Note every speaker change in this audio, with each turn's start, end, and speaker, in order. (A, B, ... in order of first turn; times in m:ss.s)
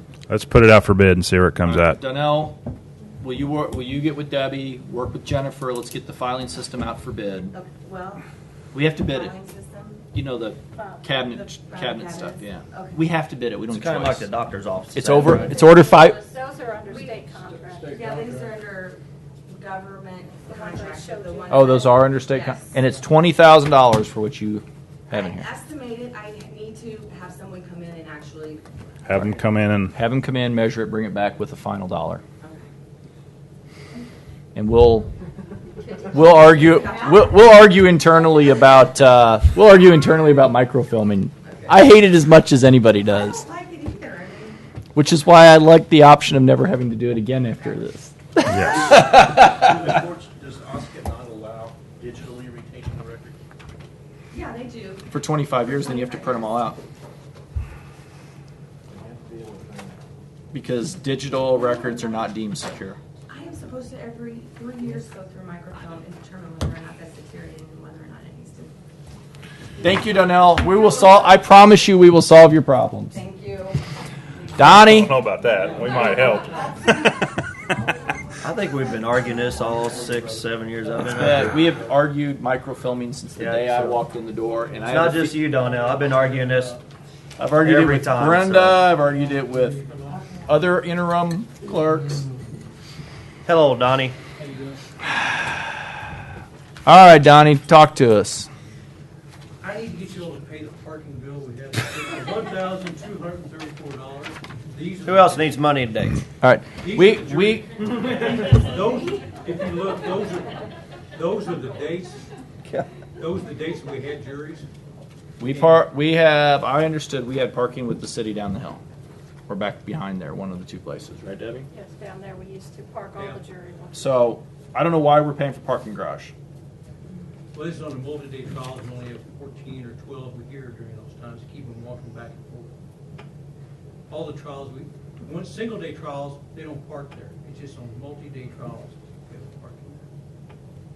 0:00.3-0:02.0 A
0:01.6-0:02.6 B
0:03.2-0:07.5 B
0:07.5-0:08.2 C
0:08.7-0:09.3 B
0:08.9-0:10.0 C
0:10.1-0:14.3 B
0:10.7-0:11.1 D
0:11.2-0:13.0 C
0:13.7-0:15.6 E
0:14.9-0:16.2 B
0:15.4-0:18.0 D
0:16.9-0:17.3 C
0:17.7-0:18.6 F
0:17.9-0:22.8 C
0:20.4-0:22.0 D
0:21.5-0:25.5 B
0:25.1-0:28.7 C
0:29.0-0:29.9 A
0:29.9-0:32.2 B
0:32.4-0:32.7 C
0:34.5-0:35.1 B
0:35.8-0:37.5 C
0:36.1-0:43.4 B
0:41.5-0:41.8 C
0:43.0-0:44.6 C
0:44.9-0:49.9 B
0:48.5-0:48.8 A
0:48.7-0:53.4 G
0:54.3-0:56.5 C
0:55.1-0:56.8 B
0:58.9-0:59.9 G
1:00.5-1:03.0 B
1:01.3-1:02.3 C
1:03.3-1:08.7 C
1:09.8-1:10.2 C
1:09.8-1:13.2 B
1:10.8-1:11.4 C
1:13.1-1:13.8 C
1:14.6-1:15.2 B
1:14.6-1:16.6 A
1:15.6-1:15.9 F
1:15.9-1:16.8 C
1:18.4-1:21.6 E
1:19.9-1:20.3 F
1:20.9-1:21.9 F
1:21.1-1:25.4 B
1:23.4-1:24.0 E
1:24.8-1:26.8 E
1:25.4-1:26.8 F
1:27.4-1:28.9 E
1:27.5-1:29.8 B
1:28.9-1:30.3 F
1:30.5-1:32.3 B
1:33.4-1:34.2 E
1:34.4-1:34.8 F
1:36.8-1:38.5 B
1:39.6-1:45.6 F
1:45.0-1:46.2 E
1:46.4-1:47.6 B
1:46.8-1:52.3 F
1:53.2-1:54.7 F
1:55.4-1:58.8 B
1:55.4-1:55.8 F
1:59.5-2:01.7 B
2:01.7-2:04.3 D
2:03.9-2:06.3 B
2:07.5-2:12.7 F
2:14.1-2:20.0 F